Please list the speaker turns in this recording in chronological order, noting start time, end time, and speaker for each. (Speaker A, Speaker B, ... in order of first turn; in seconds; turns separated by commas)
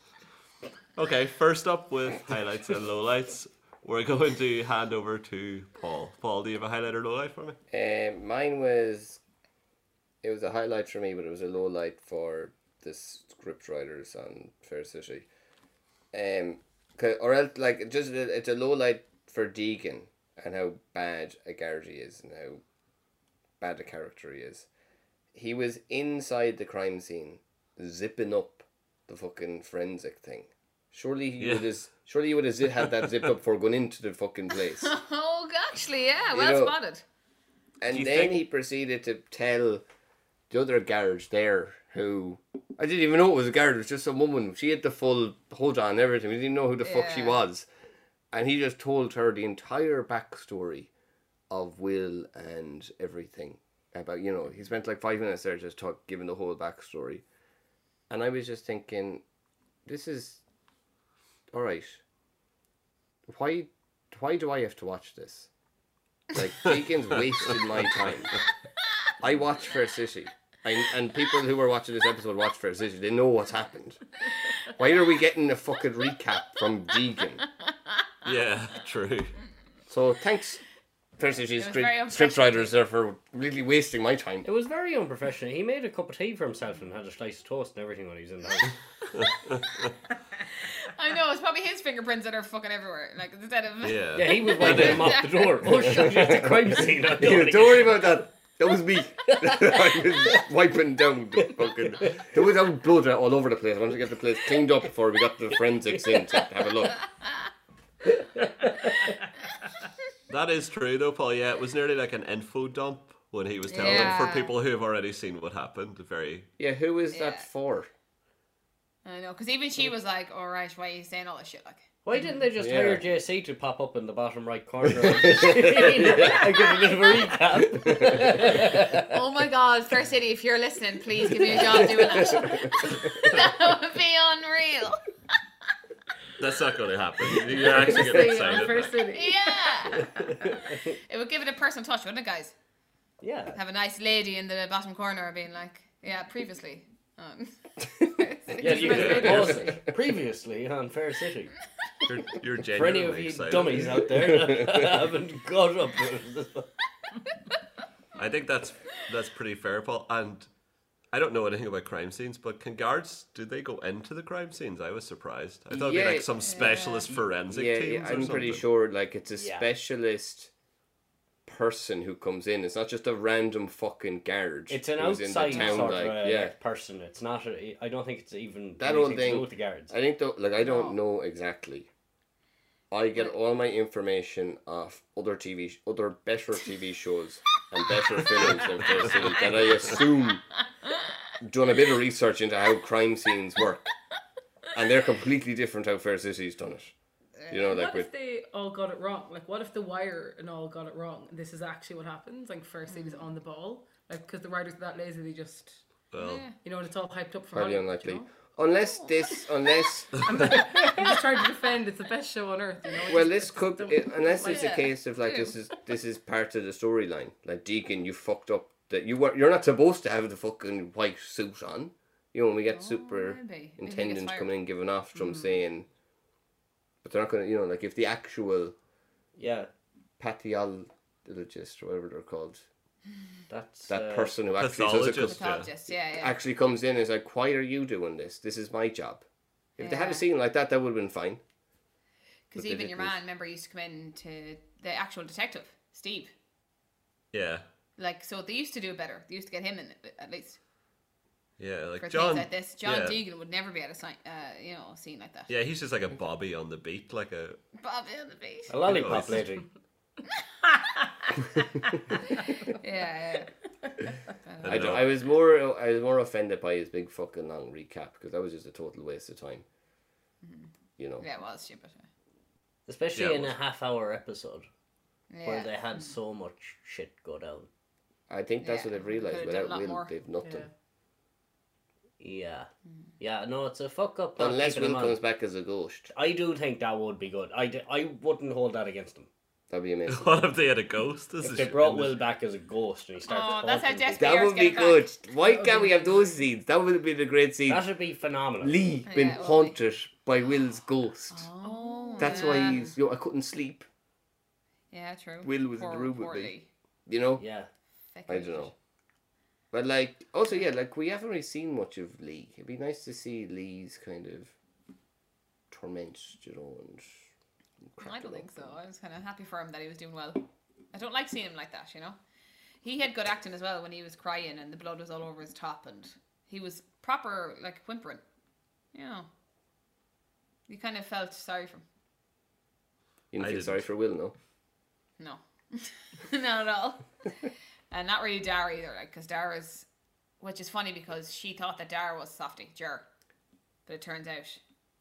Speaker A: 0.9-7.6, Speaker B: 7.7-9.2, Speaker B: 10.2-15.3, Speaker B: 16.1-22.6, Speaker B: 23.6-24.7, Speaker B: 25.3-34.9, Speaker A: 31.4-31.7, Speaker A: 32.8-33.3, Speaker C: 34.8-37.0, Speaker B: 36.3-36.7, Speaker B: 37.8-39.8, Speaker A: 37.9-38.4, Speaker B: 40.5-47.7, Speaker C: 46.8-47.4, Speaker B: 48.3-50.9, Speaker B: 51.5-57.2, Speaker B: 58.1-59.2, Speaker B: 59.9-60.4, Speaker B: 61.5-62.0, Speaker B: 63.3-65.5, Speaker B: 66.3-68.4, Speaker A: 66.7-68.2, Speaker B: 69.2-74.1, Speaker B: 74.7-77.5, Speaker A: 78.2-79.4, Speaker B: 79.9-80.6, Speaker B: 81.2-84.5, Speaker C: 81.6-82.8, Speaker D: 84.4-88.8, Speaker A: 89.2-89.7, Speaker C: 90.6-95.6, Speaker A: 93.8-95.2, Speaker D: 94.1-98.2, Speaker B: 94.6-95.0, Speaker B: 95.9-107.1, Speaker D: 99.3-100.4, Speaker D: 101.4-102.2, Speaker D: 105.9-106.4, Speaker D: 108.0-109.1, Speaker A: 110.3-116.5, Speaker C: 113.7-114.5, Speaker B: 116.6-117.9, Speaker C: 117.1-117.5, Speaker C: 119.0-121.9, Speaker D: 122.0-129.2, Speaker B: 122.6-123.0, Speaker B: 124.9-126.4, Speaker C: 126.5-127.4, Speaker B: 127.6-128.4, Speaker C: 129.0-135.0, Speaker B: 131.5-133.3, Speaker A: 136.4-139.0, Speaker E: 137.6-140.5, Speaker C: 139.1-140.1, Speaker D: 140.0-140.8, Speaker C: 140.7-142.5, Speaker D: 143.2-143.6, Speaker C: 143.5-149.6, Speaker D: 148.6-151.5, Speaker E: 148.8-149.5, Speaker A: 148.8-149.6, Speaker B: 148.8-149.9, Speaker A: 152.1-154.0, Speaker D: 152.7-156.7, Speaker B: 153.9-155.0, Speaker A: 158.2-160.5, Speaker A: 161.1-168.7, Speaker B: 165.7-166.8, Speaker C: 166.4-167.1, Speaker B: 167.5-170.5, Speaker D: 169.3-169.7, Speaker B: 171.5-176.5, Speaker D: 174.7-179.9, Speaker C: 175.5-175.8, Speaker B: 178.8-181.9, Speaker C: 180.6-181.0, Speaker B: 182.9-190.4, Speaker A: 189.0-189.8, Speaker C: 189.2-190.0, Speaker C: 190.8-191.1, Speaker B: 191.4-193.9, Speaker B: 194.7-196.9, Speaker C: 197.4-197.8, Speaker B: 197.5-198.1, Speaker E: 197.7-205.8, Speaker C: 202.9-203.3, Speaker A: 206.1-206.4, Speaker C: 206.2-206.6, Speaker E: 206.6-208.4, Speaker B: 207.5-210.6, Speaker C: 208.9-209.3, Speaker E: 210.1-214.8, Speaker B: 213.1-225.8, Speaker C: 214.4-215.5, Speaker C: 222.7-224.5, Speaker B: 227.0-228.7, Speaker D: 229.3-229.7, Speaker B: 230.2-232.6, Speaker D: 233.5-234.3, Speaker B: 233.9-235.4, Speaker A: 234.6-235.7, Speaker C: 235.2-236.4, Speaker B: 236.0-239.2, Speaker B: 239.8-241.4, Speaker C: 239.8-240.2, Speaker C: 242.5-246.3, Speaker B: 242.6-243.2, Speaker A: 247.3-247.6, Speaker C: 248.0-250.6, Speaker A: 251.6-253.2, Speaker C: 252.0-255.5, Speaker A: 255.5-257.6, Speaker C: 257.8-258.9, Speaker D: 258.7-259.6, Speaker A: 258.9-259.5, Speaker C: 262.3-263.5, Speaker C: 264.3-265.0, Speaker A: 264.6-265.0, Speaker B: 264.6-269.6, Speaker C: 270.4-272.1, Speaker B: 271.0-271.2, Speaker D: 272.9-274.6, Speaker A: 273.1-273.5, Speaker C: 275.3-276.1, Speaker D: 275.4-277.7, Speaker B: 278.3-280.7, Speaker C: 278.6-280.1, Speaker E: 280.4-280.7, Speaker D: 282.2-285.2, Speaker B: 284.4-286.1, Speaker D: 286.1-289.3, Speaker B: 289.7-290.3, Speaker A: 290.1-292.2, Speaker D: 291.4-294.4, Speaker C: 293.2-295.1, Speaker B: 294.2-297.8, Speaker E: 295.4-296.3, Speaker D: 297.6-298.9, Speaker B: 298.6-301.5, Speaker C: 299.1-299.8, Speaker C: 301.3-302.9, Speaker E: 301.6-302.8, Speaker B: 302.2-303.9, Speaker C: 304.9-306.7, Speaker B: 305.4-306.5, Speaker B: 307.1-307.4, Speaker D: 307.4-307.7, Speaker C: 308.1-308.7, Speaker B: 308.3-308.7, Speaker B: 309.7-314.5, Speaker B: 315.7-317.2, Speaker B: 317.9-318.7, Speaker C: 318.0-322.2, Speaker C: 322.8-328.2, Speaker C: 328.9-329.3, Speaker C: 330.7-331.8, Speaker B: 333.3-334.3, Speaker A: 333.4-333.9, Speaker C: 335.2-339.9, Speaker C: 340.4-343.1, Speaker C: 343.9-344.6